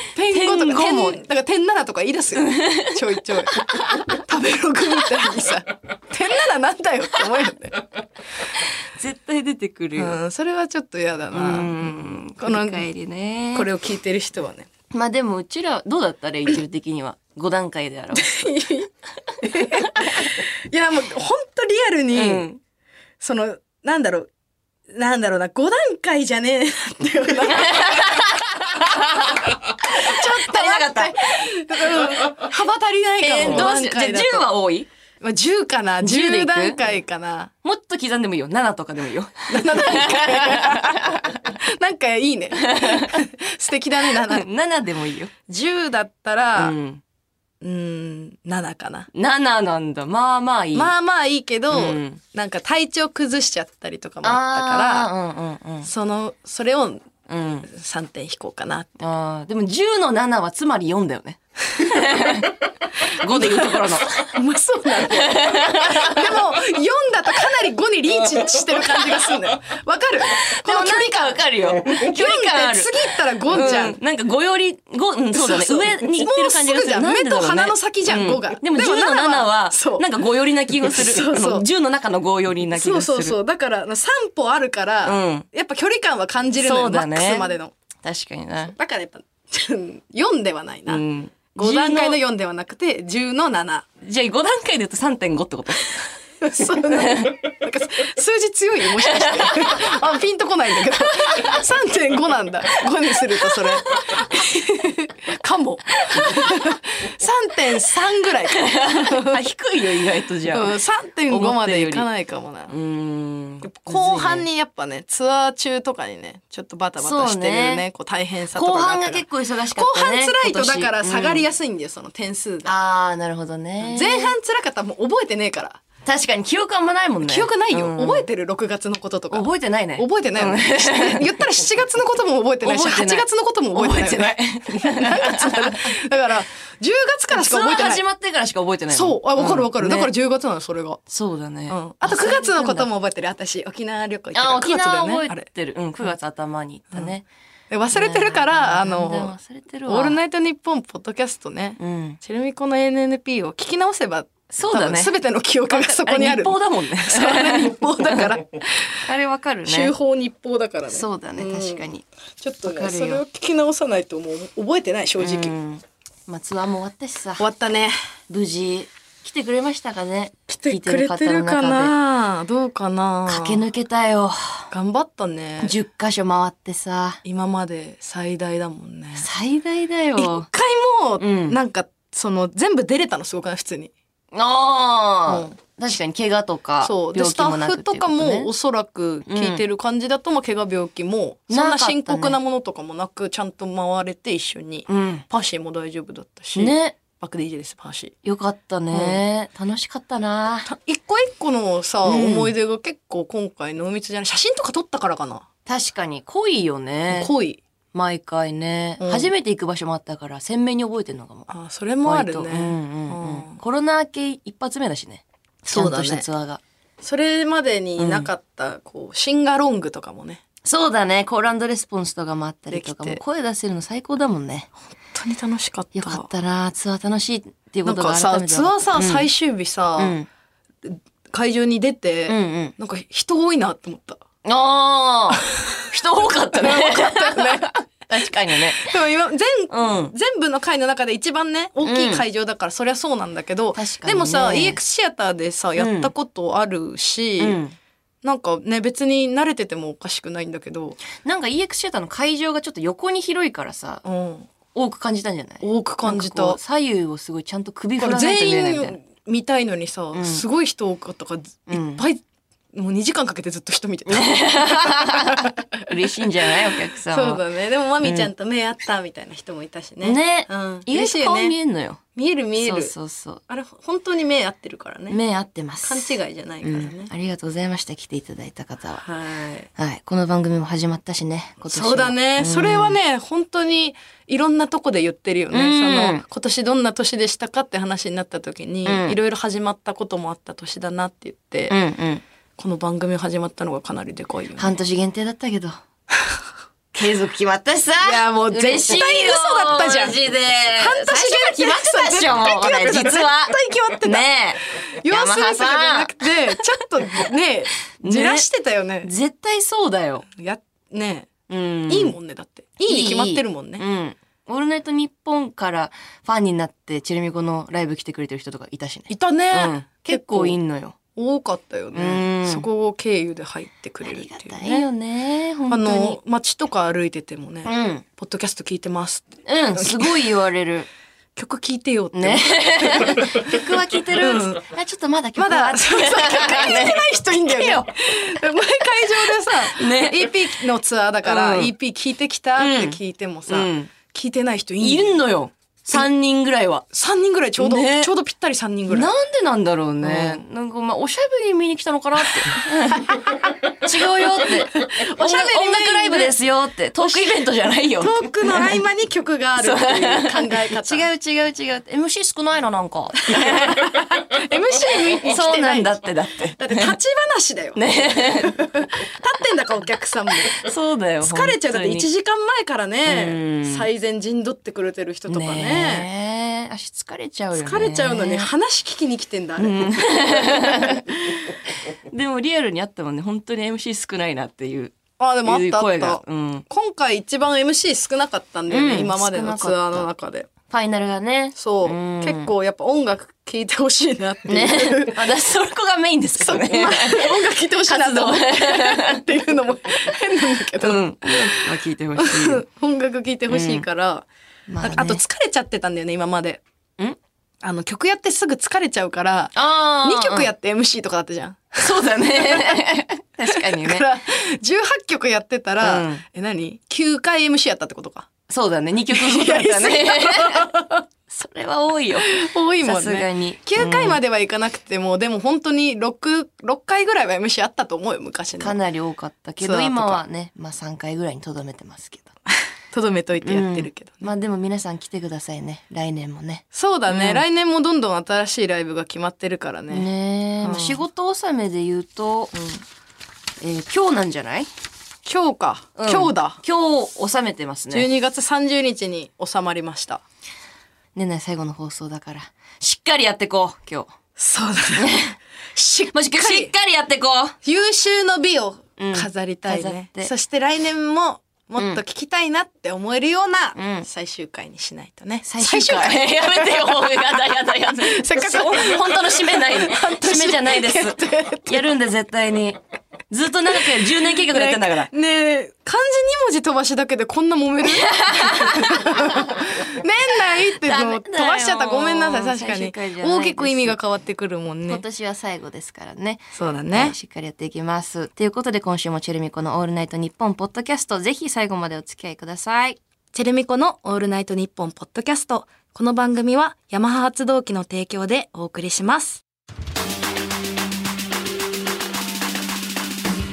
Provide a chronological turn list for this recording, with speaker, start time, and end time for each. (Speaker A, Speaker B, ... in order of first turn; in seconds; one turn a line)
Speaker A: 0.1-7.9
Speaker B: 0.2-1.2
Speaker B: 2.4-3.0
Speaker B: 3.6-4.0
Speaker B: 8.6-10.2
Speaker A: 9.9-12.8
Speaker B: 11.3-13.7
Speaker A: 13.5-14.7
Speaker B: 14.9-18.6
Speaker A: 18.1-18.9
Speaker A: 19.4-22.4
Speaker B: 19.4-20.3
Speaker B: 22.1-22.6
Speaker A: 23.2-24.3
Speaker A: 24.9-34.5
Speaker B: 27.5-32.3
Speaker B: 33.2-34.9
Speaker A: 35.2-37.5
Speaker B: 36.0-36.8
Speaker B: 37.6-41.5
Speaker A: 39.5-44.5
Speaker B: 42.6-43.2
Speaker B: 44.1-45.3
Speaker A: 45.5-46.8
Speaker B: 46.5-47.0
Speaker A: 47.6-49.1
Speaker B: 49.1-50.9
Speaker A: 50.7-55.1
Speaker B: 51.7-52.2
Speaker B: 54.2-55.9
Speaker A: 55.8-57.1
Speaker B: 57.3-57.7
Speaker A: 57.6-58.9
Speaker B: 59.0-64.3
Speaker A: 61.8-62.4
Speaker A: 63.0-74.0
Speaker B: 65.0-66.4
Speaker B: 70.4-72.9
Speaker B: 73.5-83.4
Speaker A: 75.3-80.1
Speaker A: 80.8-81.7
Speaker A: 82.7-87.7
Speaker B: 85.0-85.5
Speaker B: 86.6-87.5
Speaker B: 88.0-88.8
Speaker A: 88.6-93.9
Speaker B: 90.9-92.2
Speaker B: 94.0-96.2
Speaker A: 96.4-109.4
Speaker B: 96.9-97.3
Speaker B: 99.0-100.0
Speaker B: 101.2-101.6
Speaker B: 103.5-104.4
Speaker B: 106.1-106.7
Speaker B: 108.6-110.8
Speaker A: 110.5-112.7
Speaker B: 111.3-112.1
Speaker B: 112.7-114.5
Speaker A: 113.6-122.7
Speaker B: 117.0-117.8
Speaker B: 118.5-121.4
Speaker B: 122.6-124.3
Speaker A: 123.8-125.8
Speaker B: 126.0-128.2
Speaker A: 127.2-138.0
Speaker B: 129.3-131.3
Speaker B: 132.6-135.9
Speaker B: 137.3-140.1
Speaker A: 138.9-141.0
Speaker B: 141.1-142.9
Speaker A: 141.7-145.5
Speaker B: 144.3-147.2
Speaker A: 147.7-149.3
Speaker B: 147.9-150.2
Speaker A: 149.9-159.0
Speaker B: 151.8-152.2
Speaker B: 154.5-155.1
Speaker B: 155.7-158.3
Speaker B: 159.1-159.9
Speaker A: 159.7-161.8
Speaker B: 160.9-162.0
Speaker A: 162.4-165.5
Speaker B: 162.6-163.2
Speaker B: 165.2-167.4
Speaker A: 167.4-167.9
Speaker B: 168.3-171.9
Speaker A: 170.5-173.6
Speaker B: 173.3-174.7
Speaker A: 174.7-175.8
Speaker B: 175.6-177.2
Speaker A: 177.2-179.3
Speaker B: 179.2-180.5
Speaker A: 180.2-183.9
Speaker B: 181.2-181.6
Speaker B: 184.3-188.5
Speaker A: 185.2-185.6
Speaker A: 186.8-198.1
Speaker B: 189.3-189.6
Speaker B: 191.5-192.4
Speaker B: 194.9-195.2
Speaker B: 196.6-197.0
Speaker B: 198.2-200.7
Speaker A: 198.9-199.2
Speaker A: 200.7-205.4
Speaker B: 202.0-202.5
Speaker B: 205.7-207.3
Speaker A: 207.1-207.6
Speaker B: 207.9-211.5
Speaker A: 209.0-209.3
Speaker A: 211.5-213.6
Speaker B: 212.0-216.6
Speaker A: 215.6-216.2
Speaker A: 217.0-220.4
Speaker B: 218.0-218.3
Speaker B: 220.6-224.7
Speaker A: 222.7-223.2
Speaker A: 225.0-226.3
Speaker B: 225.9-229.3
Speaker A: 227.8-230.2
Speaker B: 230.0-230.3
Speaker A: 230.8-234.2
Speaker B: 232.3-232.7
Speaker B: 234.4-238.9
Speaker A: 236.5-237.8
Speaker A: 238.7-247.6
Speaker B: 239.7-240.1
Speaker B: 241.8-242.2
Speaker B: 243.7-244.8
Speaker B: 245.8-246.1
Speaker B: 247.4-247.8
Speaker A: 248.2-251.0
Speaker B: 251.2-254.0
Speaker A: 254.0-254.5
Speaker B: 254.7-259.0
Speaker A: 255.6-256.6
Speaker A: 258.0-262.2
Speaker B: 260.1-260.4
Speaker B: 261.7-262.0
Speaker A: 262.7-266.5
Speaker B: 264.1-267.4
Speaker A: 267.0-271.5
Speaker B: 268.0-268.3
Speaker B: 270.0-272.0
Speaker A: 272.1-272.9
Speaker B: 272.6-273.4
Speaker A: 273.5-275.2
Speaker B: 275.1-279.0
Speaker A: 275.8-277.1
Speaker A: 279.0-279.7
Speaker B: 279.8-283.0
Speaker A: 281.7-291.8
Speaker B: 285.5-286.2
Speaker B: 288.8-289.2
Speaker B: 291.7-292.2
Speaker A: 292.6-294.7
Speaker B: 294.6-295.8
Speaker B: 296.9-306.3
Speaker A: 298.0-300.2
Speaker A: 300.7-309.1
Speaker B: 308.0-308.4
Speaker B: 309.0-310.2
Speaker A: 310.3-311.3
Speaker B: 311.5-312.1
Speaker A: 311.9-313.8
Speaker B: 312.9-320.9
Speaker A: 319.1-320.6
Speaker A: 321.1-324.9
Speaker B: 321.9-322.6
Speaker B: 324.0-326.2
Speaker A: 325.7-330.3
Speaker B: 327.6-328.0
Speaker B: 329.4-330.9
Speaker A: 331.4-333.6
Speaker B: 332.1-337.9
Speaker A: 334.1-334.6
Speaker A: 335.4-345.2
Speaker B: 339.6-340.4
Speaker B: 341.2-341.7
Speaker B: 342.6-343.9
Speaker B: 344.8-346.9
Speaker A: 346.9-349.1
Speaker B: 347.6-348.1
Speaker B: 348.9-358.7
Speaker A: 350.0-350.4
Speaker A: 352.9-353.8
Speaker A: 354.6-356.3
Speaker A: 357.0-357.4
Speaker A: 358.0-361.1
Speaker B: 359.6-363.9
Speaker A: 363.3-366.0
Speaker B: 365.2-366.9
Speaker A: 366.6-370.6
Speaker B: 367.8-368.6
Speaker B: 370.5-372.1
Speaker A: 371.2-376.1
Speaker B: 373.1-373.9
Speaker B: 375.3-378.5
Speaker A: 377.6-381.3
Speaker B: 379.6-381.1
Speaker B: 382.1-386.6
Speaker A: 385.2-390.5
Speaker B: 388.7-390.1
Speaker B: 390.6-392.5
Speaker A: 391.6-395.2
Speaker B: 394.5-399.2
Speaker A: 396.4-404.3
Speaker B: 400.8-402.6
Speaker B: 403.5-403.9
Speaker B: 404.7-405.2
Speaker A: 404.8-406.6
Speaker A: 407.6-412.9
Speaker B: 409.5-410.5
Speaker B: 411.8-414.1
Speaker A: 413.4-418.3
Speaker B: 415.8-416.2
Speaker B: 418.5-420.7
Speaker A: 419.1-421.0
Speaker B: 421.3-424.2
Speaker A: 422.2-428.8
Speaker B: 428.6-432.3
Speaker A: 429.6-430.2
Speaker A: 432.9-434.3
Speaker B: 433.4-437.4
Speaker A: 436.7-440.1
Speaker B: 439.9-442.5
Speaker A: 440.6-441.0
Speaker A: 442.5-442.8
Speaker B: 443.6-444.7
Speaker A: 445.2-446.6
Speaker B: 446.0-448.1
Speaker A: 447.9-450.2
Speaker B: 451.1-454.1
Speaker A: 454.4-455.2
Speaker B: 455.0-455.4
Speaker A: 455.7-456.7
Speaker B: 456.1-457.6
Speaker A: 457.6-471.9
Speaker B: 459.0-460.3
Speaker B: 463.8-464.1
Speaker B: 465.4-472.8
Speaker B: 473.3-475.1
Speaker A: 474.5-485.0
Speaker B: 477.8-479.5
Speaker B: 480.8-484.0
Speaker B: 484.9-493.0
Speaker A: 486.5-487.1
Speaker A: 493.3-499.4